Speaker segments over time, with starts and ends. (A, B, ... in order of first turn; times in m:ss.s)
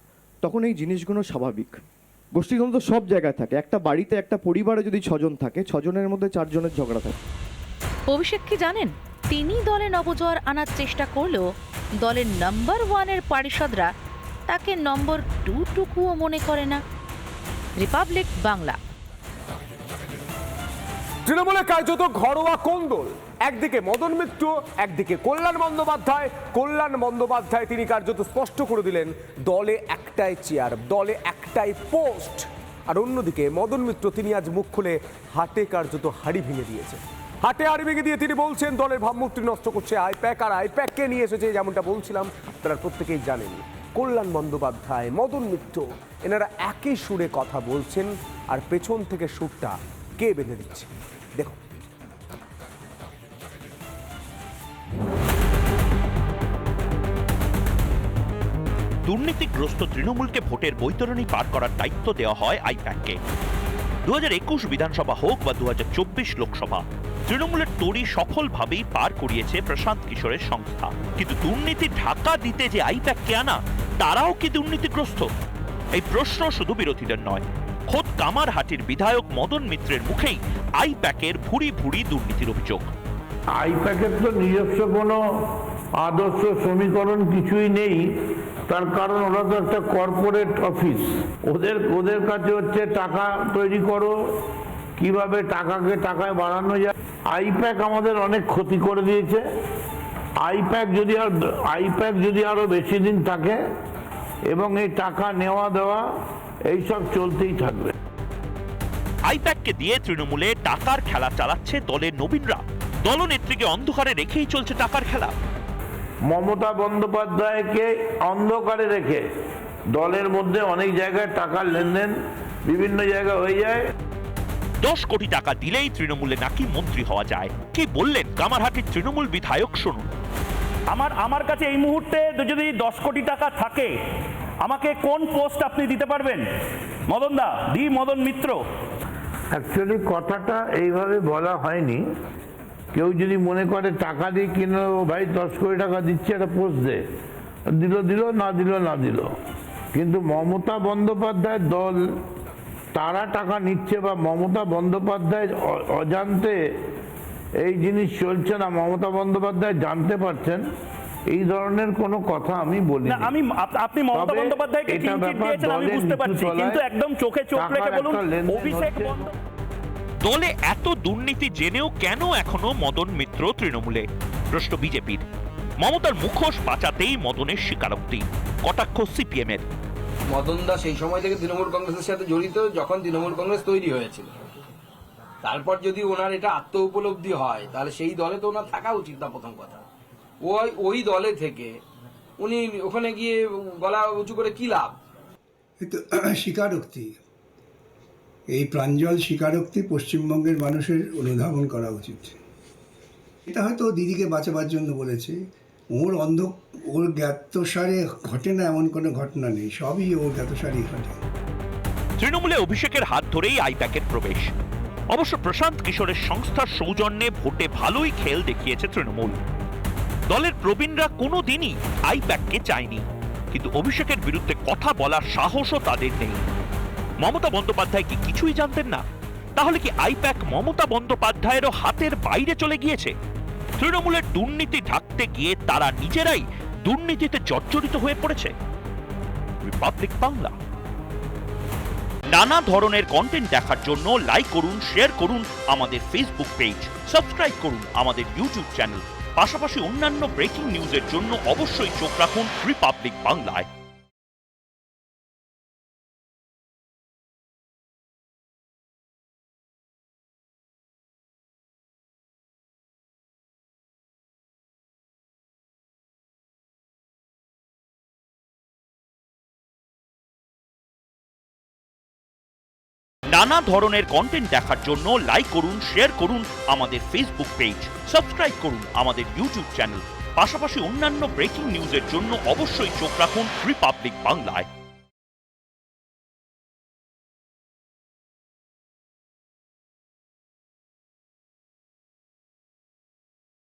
0:00.4-0:01.8 A
0:02.3-0:07.2 A
0:08.1-0:11.4 B
0:12.0-0:13.9 B
0:14.5-0:16.8 B
0:17.8-0:18.8 B
0:21.2-0:51.6 C
0:59.0-1:03.2 D
1:04.0-1:15.3 D
1:16.0-1:22.9 D
1:23.6-1:25.2 E
1:26.0-1:28.0 E
1:28.7-1:34.1 E
1:35.0-1:39.4 E
1:40.4-1:43.6 E
1:44.5-1:46.0 E
1:46.7-1:47.9 E
1:49.3-1:55.3 D
1:56.3-1:59.2 E
1:59.9-2:02.1 E
2:02.7-2:03.8 E
2:04.8-2:10.1 D
2:10.9-2:13.9 F
2:14.6-2:16.4 F
2:17.1-2:18.6 F
2:19.5-2:22.0 E
2:22.9-2:27.0 E
2:27.8-2:29.3 E
2:29.9-2:32.0 E
2:32.9-2:36.6 E
2:37.6-2:40.6 E
2:41.3-2:43.4 E
2:43.0-2:49.3 F
2:44.1-2:46.9 E
2:47.5-2:49.3 E
2:50.2-2:55.2 D
2:55.8-2:59.6 D
3:00.3-3:04.3 G
3:05.4-3:09.8 G
3:10.4-3:11.8 G
3:12.4-3:15.0 G
3:15.8-3:17.2 H
3:18.5-3:22.4 H
3:23.5-3:25.4 H
3:25.9-3:31.2 H
3:32.2-3:34.5 D
3:35.1-3:39.4 D
3:40.3-3:46.4 D
3:47.2-3:49.0 D
3:49.6-3:53.1 D
3:53.8-3:58.5 D
3:59.6-4:00.5 D
4:02.3-4:13.7 D
4:33.3-4:44.7 D